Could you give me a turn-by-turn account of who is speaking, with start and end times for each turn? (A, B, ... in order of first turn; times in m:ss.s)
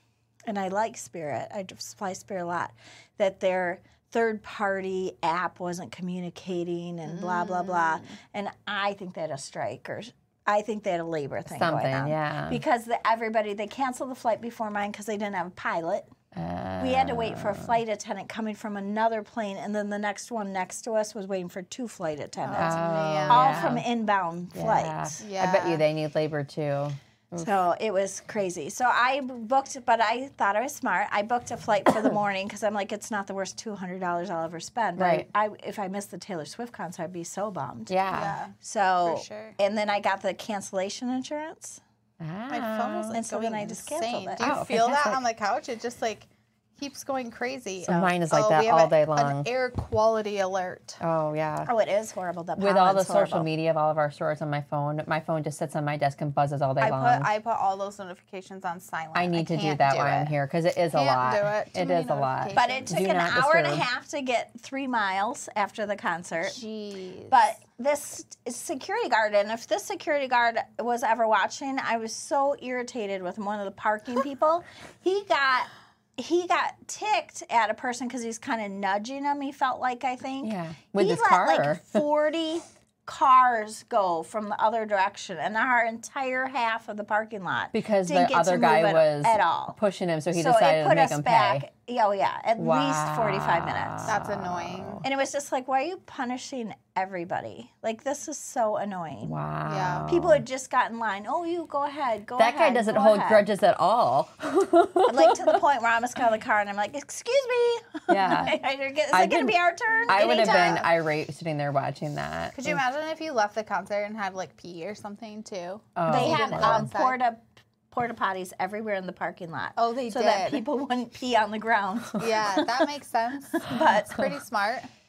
0:00.5-0:16.1 A
0:07.1-0:08.2 B
0:11.5-0:12.6 C
0:16.3-0:17.8 C
0:16.8-0:25.2 A
0:22.4-0:23.8 B
0:22.6-0:23.9 C
0:24.5-0:27.5 C
0:25.2-0:25.8 B
0:27.4-0:38.0 A
0:35.0-0:35.3 C
0:37.9-0:38.4 C
0:38.1-0:39.6 B
0:38.6-0:41.8 A
0:42.2-0:43.2 C
0:42.5-0:51.0 B
0:43.1-0:44.4 A
0:44.4-0:45.2 C
0:47.8-0:49.5 C
0:51.0-0:51.7 C
0:51.7-0:53.5 A
0:52.6-0:57.3 C
0:56.8-1:00.3 B
0:59.2-1:03.9 C
1:00.9-1:03.0 B
1:02.6-1:06.6 A
1:06.4-1:07.4 B
1:07.3-1:29.8 A
1:20.4-1:22.0 C
1:27.7-1:31.7 C
1:30.3-1:34.2 A
1:32.6-1:35.0 C
1:34.1-1:35.0 B
1:35.0-1:39.4 A
1:39.2-1:40.4 C
1:39.6-1:40.2 B
1:40.1-1:43.4 A
1:42.4-1:45.6 C
1:45.0-1:50.9 A
1:48.1-1:48.6 C
1:49.1-1:52.8 C
1:50.1-1:50.9 B
1:52.6-1:57.2 B
1:56.0-1:56.9 C
1:56.1-2:02.7 A
1:59.8-2:00.6 B
2:02.2-2:04.9 B
2:03.6-2:04.2 A